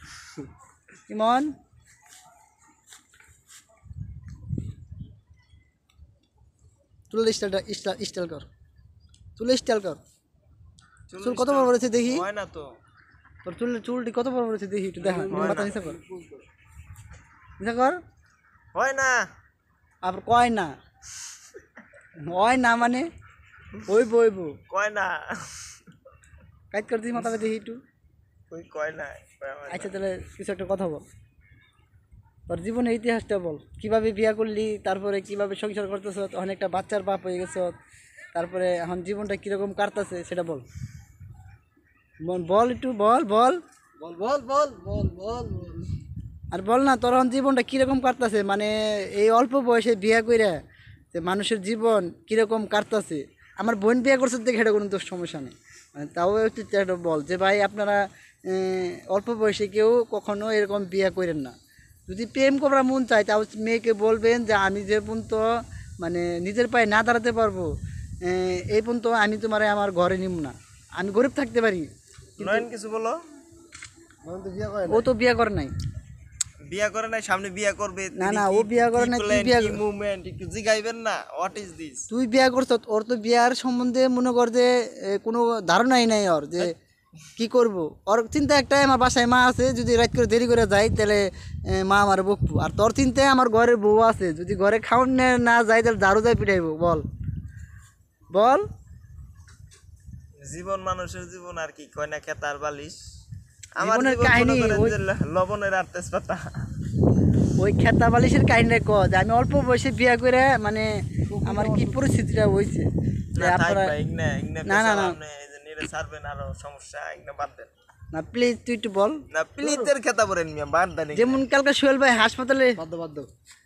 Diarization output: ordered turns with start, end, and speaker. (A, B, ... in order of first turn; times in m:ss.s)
0:01.1-0:01.5 A
0:07.1-0:08.5 A
0:09.4-0:10.0 A
0:11.1-0:12.8 B
0:11.2-0:12.2 A
0:13.4-0:16.0 A
0:15.0-0:16.4 C
0:15.3-0:15.7 B
0:17.6-0:18.0 A
0:18.7-0:19.2 B
0:20.0-0:20.7 A
0:22.3-0:23.1 A
0:23.8-0:24.5 A
0:24.7-0:25.7 B
0:26.7-0:27.8 A
0:28.5-0:30.0 B
0:29.7-0:31.0 A
0:32.5-0:37.7 A
0:38.3-0:40.6 A
0:42.2-0:43.6 A
0:44.0-0:45.9 C
0:46.5-0:50.6 A
0:51.1-1:01.5 A
1:02.1-1:07.7 A
1:08.2-1:12.7 A
1:12.4-1:13.2 B
1:14.2-1:15.0 C
1:14.9-1:15.7 A
1:16.7-1:22.0 B
1:18.2-1:19.8 A
1:22.1-1:26.7 A
1:27.4-1:37.0 A
1:38.3-1:38.6 A
1:40.4-1:43.0 B
1:43.8-1:46.5 B
1:43.8-1:45.0 A
1:47.6-1:54.0 A
1:51.3-1:52.0 C
1:53.4-1:57.7 B
1:54.6-1:55.2 A
1:58.1-1:59.2 A
1:59.3-2:01.4 B
1:59.6-1:59.9 C
2:01.1-2:02.8 A
2:02.8-2:03.3 C